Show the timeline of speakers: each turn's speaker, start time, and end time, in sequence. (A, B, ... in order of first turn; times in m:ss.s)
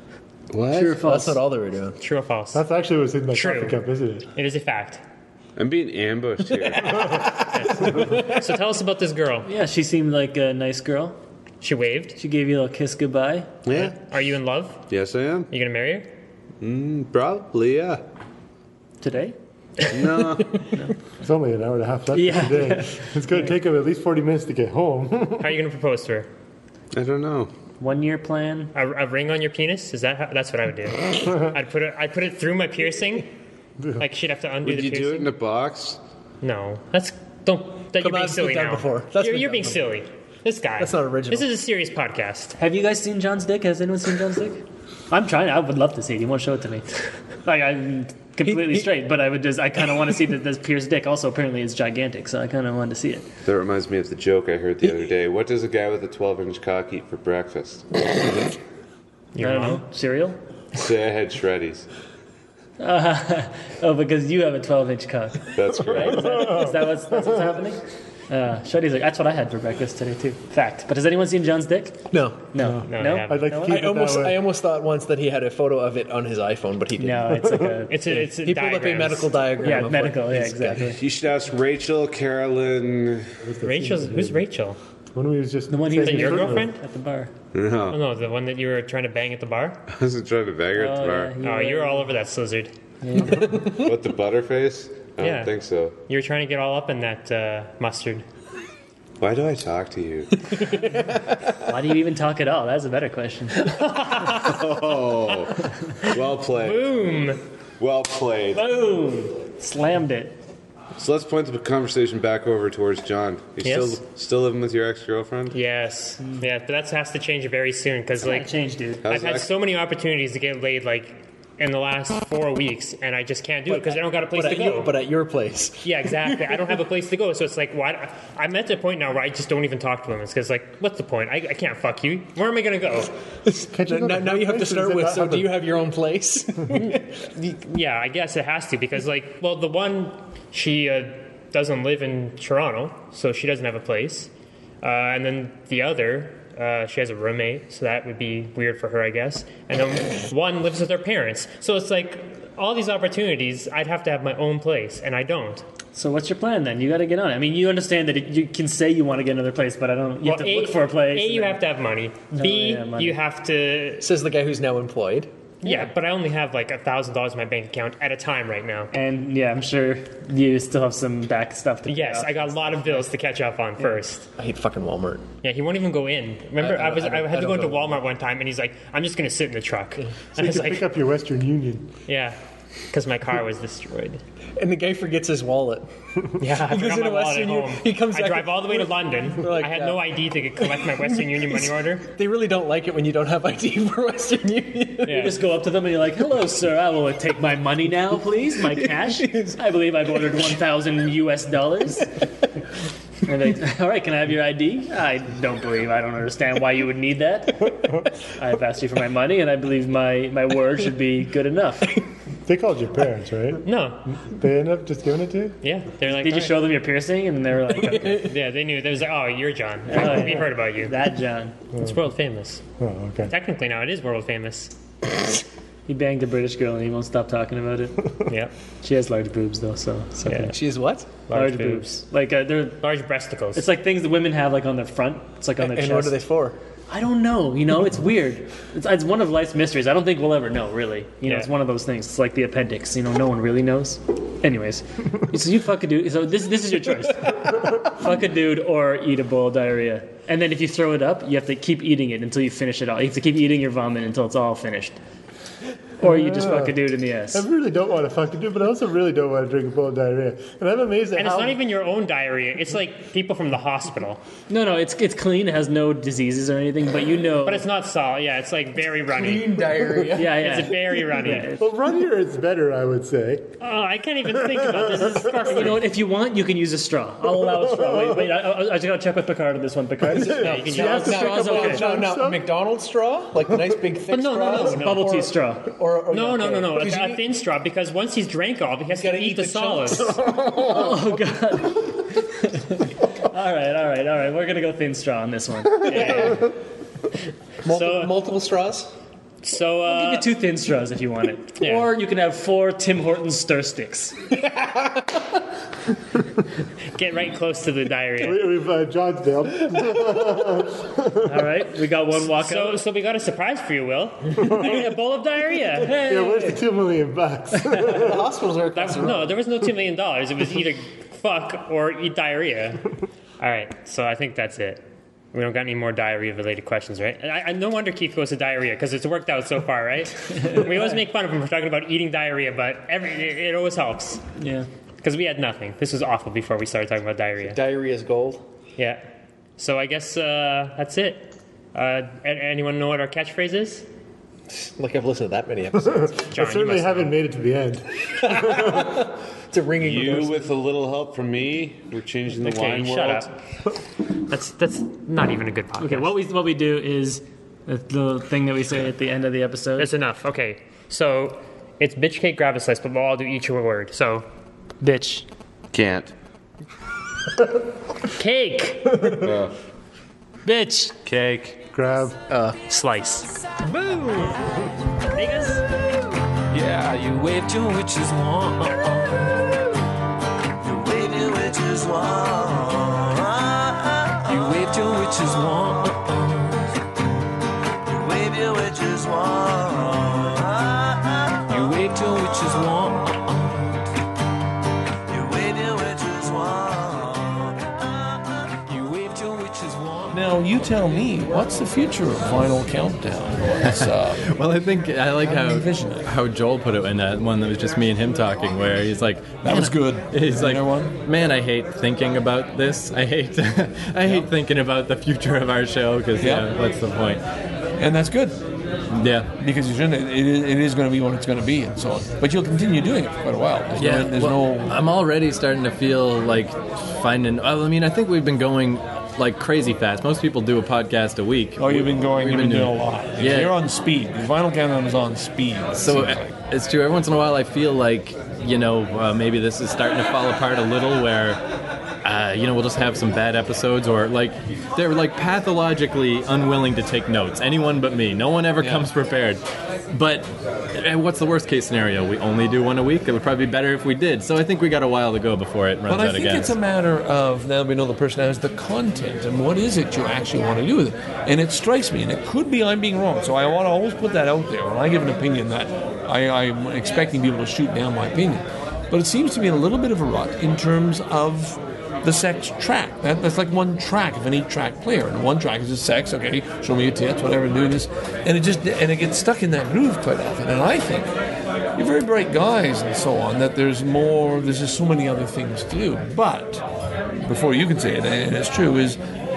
0:00.5-0:00.9 A
0:00.7-0:01.4 B
0:01.0-0:02.0 C
0:02.0-0:02.6 D
0:02.5-0:04.3 E
0:03.3-0:03.8 D
0:04.3-0:05.0 D
0:05.6-0:07.0 A
0:07.4-0:09.5 D
0:09.4-0:11.2 B
0:11.6-0:12.2 D
0:12.2-0:13.5 B
0:13.6-0:14.0 A
0:13.7-0:14.8 D
0:14.9-0:15.5 A
0:15.5-0:16.1 D
0:16.6-0:18.0 A
0:19.0-0:19.4 B
0:19.9-0:20.6 A
0:21.2-0:25.5 E
0:22.1-0:23.5 B
0:25.4-0:26.3 D
0:26.9-0:27.5 A
0:27.8-0:28.7 B
0:28.7-0:33.3 D
0:34.0-0:35.3 D
0:34.6-0:36.0 A
0:36.4-0:42.5 D
0:38.0-0:39.9 C
0:40.8-0:41.5 C
0:42.6-0:46.8 B
0:47.4-0:53.2 B
0:48.4-0:48.9 C
0:53.4-0:58.4 A
0:59.3-0:59.8 D
0:59.4-1:00.4 B
1:00.7-1:01.9 A
1:02.8-1:13.8 B
1:05.6-1:06.4 A
1:12.1-1:12.5 C
1:12.6-1:14.5 E
1:12.9-1:13.6 D
1:13.6-1:17.4 C
1:17.0-1:18.3 B
1:17.9-1:19.4 D
1:18.4-1:20.9 C
1:19.6-1:21.0 B
1:21.0-1:23.3 A
1:23.4-1:24.4 E
1:23.6-1:24.8 D
1:25.2-1:26.7 E
1:25.7-1:27.3 B
1:26.0-1:26.8 D
1:27.5-1:28.0 A
1:27.9-1:29.8 D
1:29.9-1:31.4 A
1:30.7-1:32.1 B
1:31.4-1:32.7 D
1:33.0-1:33.5 B
1:33.8-1:36.0 A
1:35.2-1:35.5 D
1:36.1-1:38.2 D
1:39.2-1:40.3 A
1:41.6-1:43.8 B
1:43.8-1:44.4 D
1:44.4-1:45.6 A
1:46.1-1:47.0 A
1:46.5-1:47.4 D
1:47.8-1:48.8 A
1:48.5-1:50.3 B
1:51.0-1:55.5 A
1:53.6-1:54.0 D
1:55.5-1:58.5 D
1:58.2-1:59.0 B
1:59.0-1:59.5 A
1:59.0-2:04.9 D
2:03.7-2:06.8 C
2:05.8-2:13.1 D
2:13.4-2:17.1 C
2:13.7-2:15.6 E
2:16.7-2:24.3 D
2:24.8-2:35.6 D
2:35.9-2:41.6 B
2:40.2-2:44.0 D
2:42.3-2:43.2 B
2:44.0-2:45.3 C
2:45.6-2:48.9 D
2:48.9-2:53.1 B
2:51.9-2:54.3 D
2:54.4-2:55.2 C
2:55.4-3:00.9 D
2:56.6-2:58.0 C
3:00.4-3:01.9 E
3:02.1-3:02.4 D
3:02.9-3:04.2 D
3:04.6-3:05.9 C
3:06.4-3:12.1 D
3:06.5-3:15.3 C
3:15.1-3:15.4 D
3:15.1-3:22.1 B
3:18.7-3:19.6 C
3:23.2-3:27.8 B
3:28.3-3:32.0 B
3:32.4-3:33.6 E
3:33.6-3:34.0 D
3:34.3-3:35.6 E
3:35.6-3:36.7 D
3:36.2-3:38.3 B
3:38.2-3:40.9 D
3:39.9-3:41.6 B
3:41.7-3:42.6 D
3:42.8-3:43.3 E
3:43.3-3:44.7 D
3:45.9-3:48.0 B
3:48.3-3:48.5 D
3:48.8-3:50.5 B
3:50.2-3:50.5 D
3:50.5-3:51.1 C
3:51.3-3:51.8 D
3:51.3-3:52.8 B
3:52.8-3:53.7 D
3:53.5-3:56.2 B
3:55.6-3:56.6 C
3:56.9-4:15.0 B
4:16.0-4:17.4 B
4:16.0-4:16.8 E
4:17.3-4:21.6 E
4:21.2-4:24.2 D
4:24.5-4:27.6 B
4:27.4-4:31.5 D
4:29.1-4:30.4 C
4:30.1-4:31.6 B
4:31.6-4:33.5 E
4:33.6-4:35.9 D
4:34.7-4:35.4 E
4:35.4-4:41.8 B
4:37.6-4:38.3 E
4:40.1-4:42.5 E
4:40.1-4:47.2 C
4:40.5-4:41.0 D
4:44.1-4:45.1 D
4:44.6-4:45.7 B
4:46.1-4:50.2 D
4:48.9-4:51.0 C
4:50.6-4:56.4 B
4:55.8-4:56.5 D
4:55.9-4:56.3 C
4:57.6-4:58.9 C
4:57.7-4:58.1 D
4:59.4-5:00.3 D
4:59.8-5:04.2 B
5:01.6-5:01.9 D
5:04.3-5:05.1 C
5:06.9-5:08.6 D
5:08.2-5:11.3 E
5:11.2-5:12.8 B
5:12.2-5:16.0 D
5:15.8-5:16.6 B
5:16.0-5:18.2 E
5:17.7-5:19.4 C
5:18.7-5:22.9 D
5:23.4-5:34.2 D
5:34.4-5:34.7 B
5:35.0-5:37.6 D
5:37.4-5:38.4 C
5:38.8-5:39.0 D
5:39.6-5:43.8 D
5:44.5-5:46.3 C
5:46.3-5:48.9 E
5:46.3-5:47.2 D
5:48.2-5:50.5 C
5:49.8-5:53.3 A
5:52.4-5:53.3 D
5:54.3-5:56.1 D
5:55.8-5:59.9 B
5:59.8-6:04.2 D
6:04.8-6:05.2 B
6:05.7-6:06.1 A
6:08.1-6:09.1 D
6:09.2-6:09.5 A
6:10.4-6:11.0 B
6:11.1-6:11.5 F
6:11.1-6:11.5 A
6:11.7-6:12.2 E
6:12.3-6:12.6 C
6:12.7-6:14.4 D
6:15.0-6:15.6 D
6:16.7-6:17.1 F
6:20.6-6:26.1 F
6:27.9-6:33.2 F
6:35.1-6:38.1 F
6:38.7-6:39.3 C
6:40.1-6:44.3 G
6:44.3-6:57.2 H
6:45.1-6:46.1 G
6:49.4-6:51.0 G
6:54.0-6:54.3 G
6:56.2-6:56.5 G
6:57.8-6:58.4 G
6:58.9-6:59.3 H
6:59.4-7:04.8 G
7:03.8-7:13.5 H
7:11.6-7:16.4 G
7:15.8-7:21.4 H
7:22.0-7:29.4 H
7:28.6-7:28.9 G
7:29.9-7:36.5 H
7:35.8-8:01.1 G
8:01.8-8:06.6 G
8:07.2-8:09.0 G